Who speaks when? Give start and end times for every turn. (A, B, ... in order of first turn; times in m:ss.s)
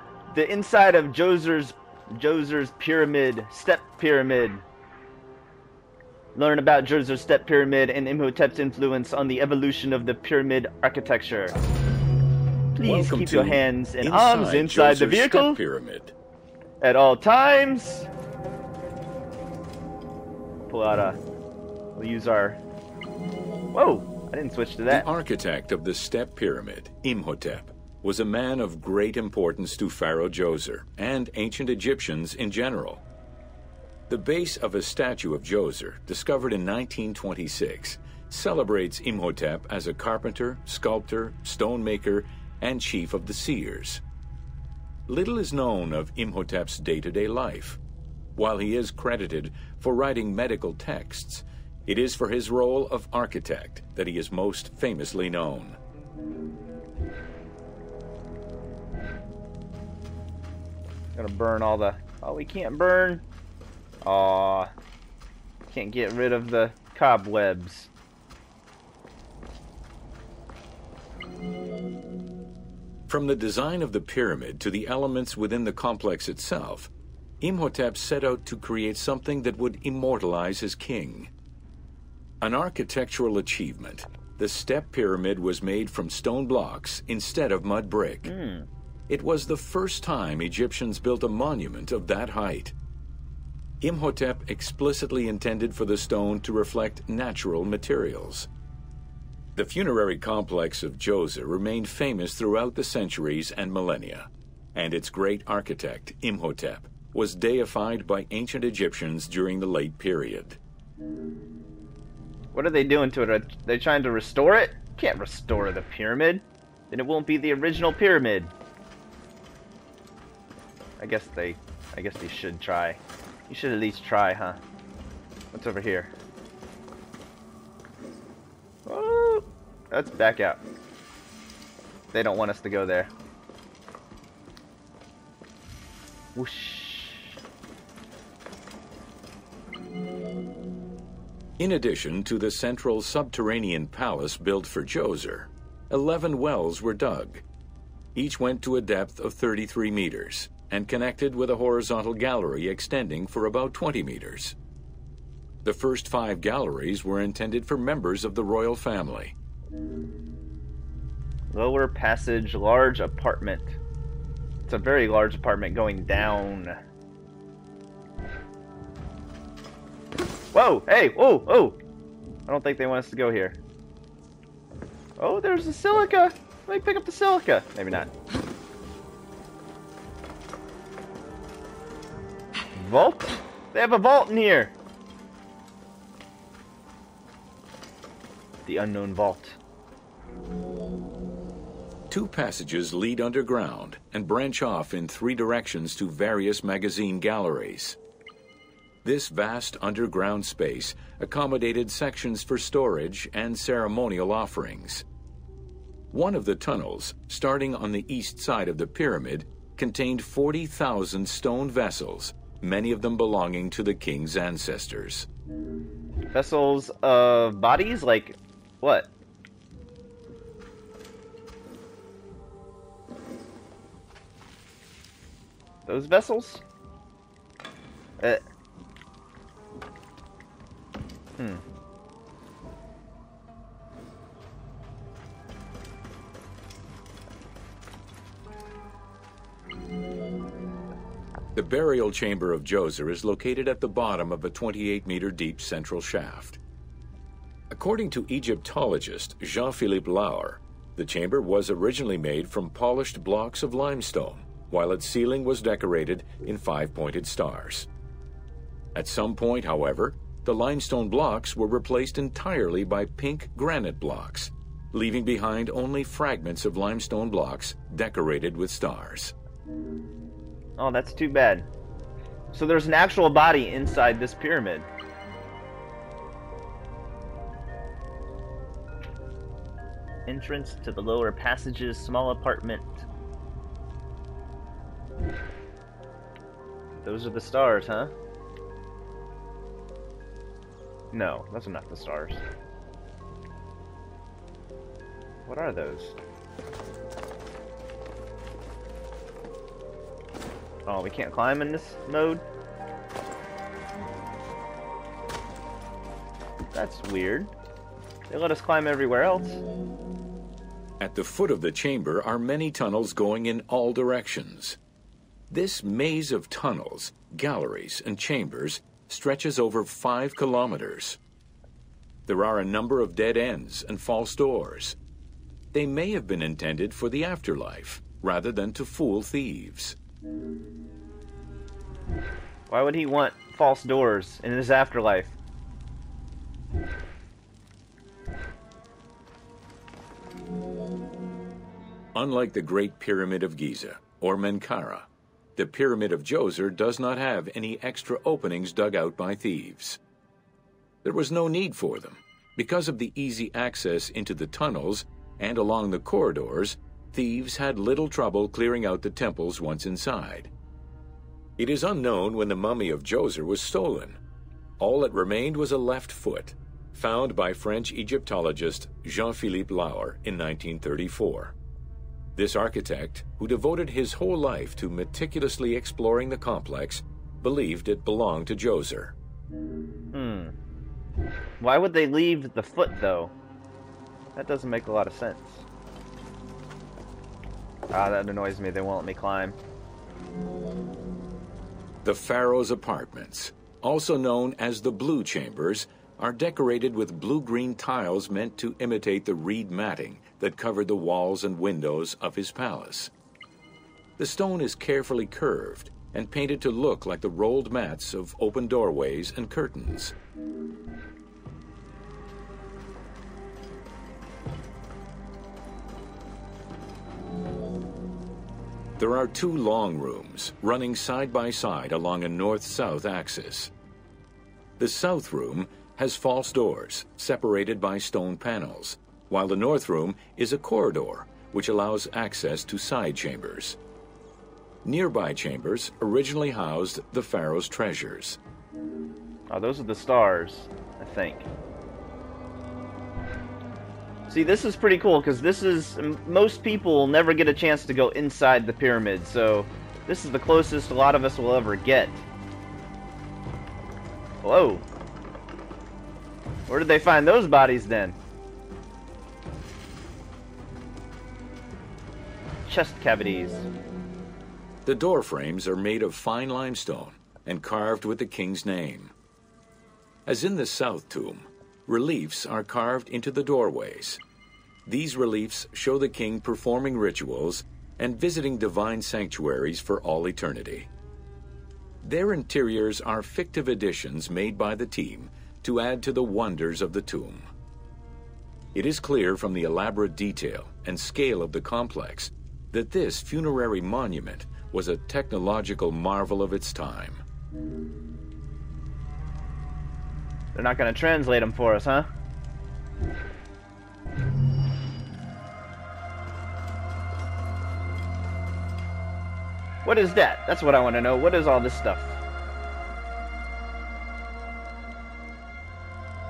0:00.3-0:04.6 A
0:06.3-0:11.5 A
0:12.7-0:15.6 A
0:12.8-0:16.1 B
0:16.8-0:18.1 A
0:20.6-0:21.2 A
0:22.0-0:22.6 A
0:23.7-0:25.0 A
0:24.9-0:33.0 B
0:34.1-0:44.0 B
0:45.1-0:47.8 B
0:48.4-0:55.8 B
1:01.2-1:03.2 A
1:04.0-1:04.7 A
1:05.7-1:07.9 A
1:13.1-1:21.3 B
1:22.4-1:28.3 B
1:28.2-1:28.7 A
1:29.1-1:32.7 B
1:33.8-1:38.5 B
1:39.6-1:50.6 B
1:52.5-1:58.5 A
2:01.0-2:04.6 A
2:05.5-2:06.1 A
2:08.8-2:10.6 A
2:12.1-2:13.1 A
2:16.3-2:17.4 A
2:21.6-2:27.4 B
2:28.1-2:34.6 B
2:35.6-2:39.3 B
2:41.5-2:43.8 A
2:44.7-2:46.8 A
2:50.5-2:51.8 A
2:52.5-2:53.6 A
2:55.2-2:58.1 A
3:02.7-3:04.7 A
3:08.6-3:09.6 A
3:12.1-3:18.0 B
3:19.0-3:25.0 B
3:26.1-3:35.3 B
3:36.3-3:39.1 A
3:45.9-3:46.6 A
4:01.5-4:06.6 B
4:07.7-4:17.9 B
4:18.9-4:29.3 B
4:30.8-4:31.7 A
4:32.5-4:34.9 A
4:40.2-4:43.0 A
4:47.0-4:48.1 A
4:51.1-4:52.4 A
4:55.4-4:56.2 A
5:00.8-5:02.4 A
5:06.7-5:07.5 A
5:08.3-5:09.6 A
5:11.0-5:14.8 B
5:15.5-5:21.2 B
5:22.2-5:25.0 B
5:25.7-5:30.0 B
5:32.7-5:35.4 A
5:42.1-5:50.0 B
5:51.0-6:00.5 B
6:01.6-6:04.2 B
6:04.8-6:11.5 B
6:12.3-6:19.1 B
6:20.1-6:20.5 A
6:21.6-6:23.3 A
6:24.3-6:25.6 A
6:27.9-6:29.6 A
6:32.0-6:43.1 B
6:44.2-6:50.1 B
6:59.0-7:03.7 B
7:04.8-7:13.8 B
7:14.8-7:18.4 B
7:19.5-7:21.5 A
7:24.3-7:32.2 A
7:34.4-7:34.8 A
7:36.7-7:38.2 A
7:42.6-7:43.7 A
7:44.8-7:49.1 B
7:50.2-7:54.2 B
7:54.8-8:00.9 B
8:02.0-8:07.4 B
8:08.7-8:17.2 B
8:20.5-8:22.1 A
8:29.8-8:32.2 A